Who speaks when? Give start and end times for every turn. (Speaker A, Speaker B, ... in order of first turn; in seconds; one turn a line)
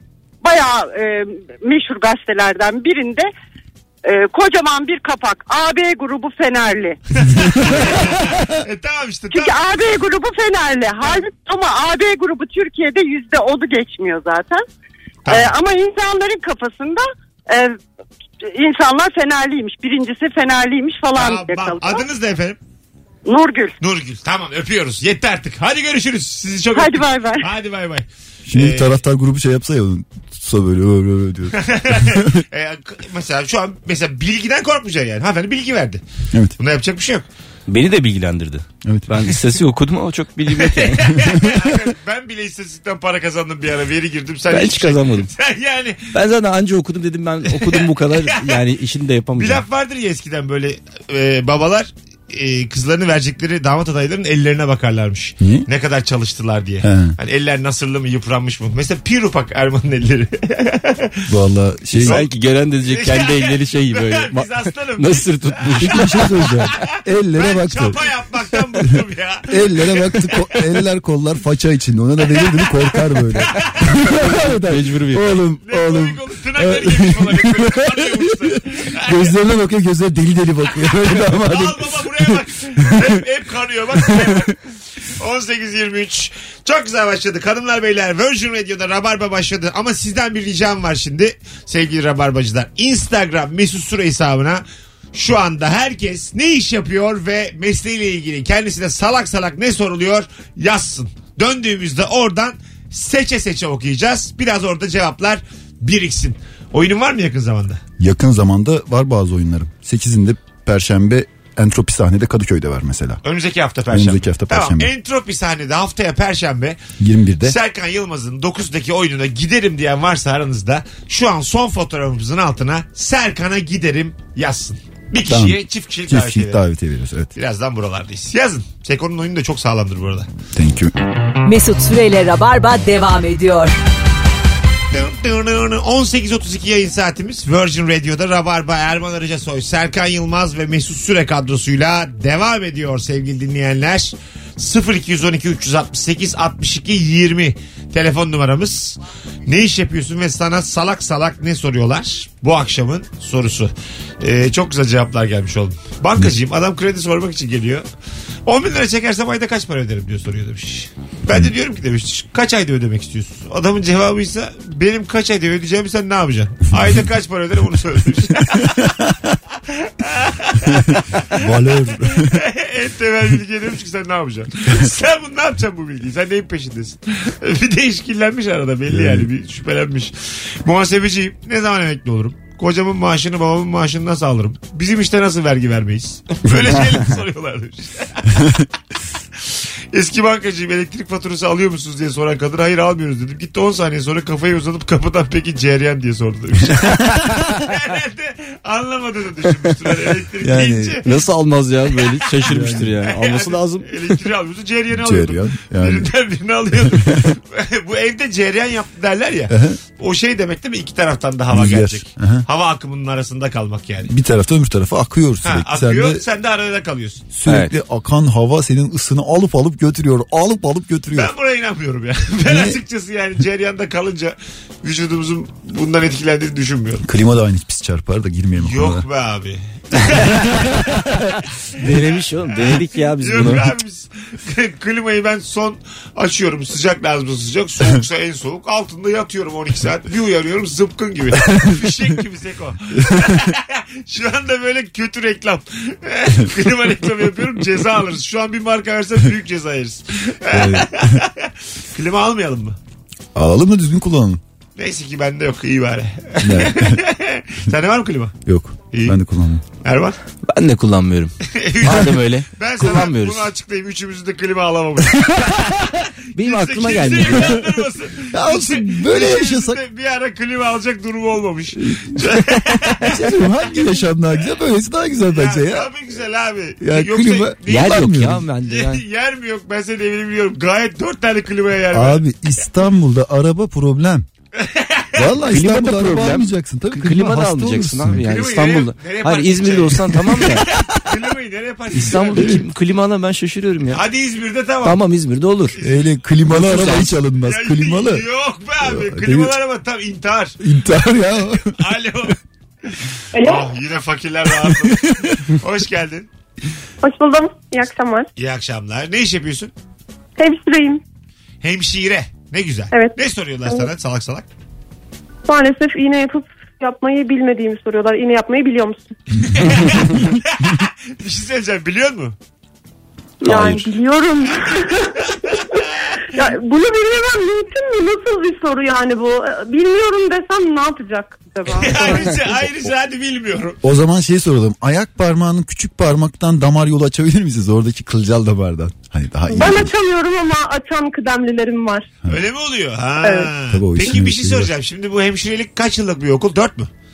Speaker A: 0.4-3.3
Speaker A: 4.0-7.0
Speaker B: 7.2-9.5
Speaker A: 9.3-14.6
Speaker B: 15.3-15.5
Speaker A: 15.3-17.8
Speaker A: 18.4-22.0
Speaker B: 21.1-22.6
Speaker A: 23.3-23.8
Speaker B: 23.8-29.0
Speaker A: 26.8-27.5
Speaker C: 28.5-32.4
Speaker B: 31.6-36.0
Speaker B: 36.6-37.3
Speaker D: 37.7-41.3
Speaker C: 38.9-39.2
Speaker B: 40.8-46.1
Speaker C: 41.2-41.5
Speaker D: 44.5-45.3
Speaker D: 46.1-49.6
Speaker B: 47.5-48.6
Speaker B: 49.4-61.3
Speaker C: 55.4-55.7
Speaker C: 56.8-57.2
Speaker C: 61.3-62.2
Speaker B: 62.0-62.3
Speaker D: 62.0-66.4
Speaker B: 62.8-66.2
Speaker C: 65.8-68.0
Speaker B: 66.8-70.5
Speaker C: 69.5-83.1
Speaker B: 73.4-74.0
Speaker D: 74.6-75.4
Speaker B: 75.6-79.3
Speaker B: 81.3-84.6
Speaker C: 84.2-84.4
Speaker B: 85.2-107.8
Speaker C: 108.0-113.2
Speaker B: 113.2-116.8
Speaker C: 113.9-114.9
Speaker C: 117.0-117.6
Speaker B: 117.4-126.6
Speaker C: 125.3-127.3
Speaker B: 127.4-130.3
Speaker C: 130.6-130.9
Speaker E: 131.4-133.7
Speaker B: 134.9-157.8
Speaker B: 158.5-168.9
Speaker C: 168.6-169.1
Speaker B: 169.7-188.5
Speaker C: 170.9-172.4
Speaker C: 178.9-179.3
Speaker B: 189.5-201.1
Speaker C: 200.4-201.0
Speaker D: 201.1-204.2
Speaker C: 202.5-202.9
Speaker B: 203.1-214.1
Speaker C: 204.9-206.1
Speaker C: 206.8-207.3
Speaker C: 209.5-209.8
Speaker C: 211.5-212.5
Speaker C: 214.1-216.2
Speaker B: 215.4-217.3
Speaker C: 217.3-221.3
Speaker D: 217.5-217.7
Speaker B: 221.1-227.1
Speaker C: 222.4-222.8
Speaker C: 227.0-229.1
Speaker B: 228.6-231.2
Speaker D: 231.8-233.7
Speaker B: 232.0-252.8
Speaker C: 241.5-241.8
Speaker C: 250.5-251.2
Speaker C: 253.3-254.4
Speaker B: 254.8-258.4
Speaker C: 256.4-257.0
Speaker C: 258.5-259.6
Speaker B: 258.9-259.2
Speaker B: 259.8-260.2
Speaker D: 260.5-263.5
Speaker B: 261.5-273.2
Speaker D: 266.4-267.7
Speaker C: 268.3-269.8
Speaker C: 271.9-272.2
Speaker C: 273.1-275.9
Speaker B: 275.3-278.0
Speaker C: 276.8-278.5
Speaker D: 277.7-279.0
Speaker B: 278.6-282.2
Speaker C: 281.9-284.3
Speaker B: 284.6-285.3
Speaker C: 285.2-288.2
Speaker D: 285.5-290.7
Speaker B: 288.2-292.6
Speaker D: 291.9-294.0
Speaker C: 292.0-292.6
Speaker B: 293.9-295.0
Speaker D: 294.8-295.8
Speaker C: 295.8-298.2
Speaker D: 296.5-297.1
Speaker B: 297.4-300.6
Speaker C: 298.8-299.5
Speaker C: 300.6-301.7
Speaker B: 301.5-302.4
Speaker F: 303.3-303.6
Speaker B: 303.4-306.3
Speaker C: 304.7-304.9
Speaker F: 307.0-308.3
Speaker B: 308.4-309.7
Speaker F: 310.4-311.0
Speaker B: 311.6-314.5
Speaker F: 315.5-319.1
Speaker B: 319.5-322.4
Speaker F: 323.4-332.3
Speaker C: 323.5-323.9
Speaker B: 331.7-333.8
Speaker C: 333.8-339.9
Speaker F: 339.5-342.1
Speaker B: 342.3-346.9
Speaker F: 343.2-343.5
Speaker C: 343.7-344.7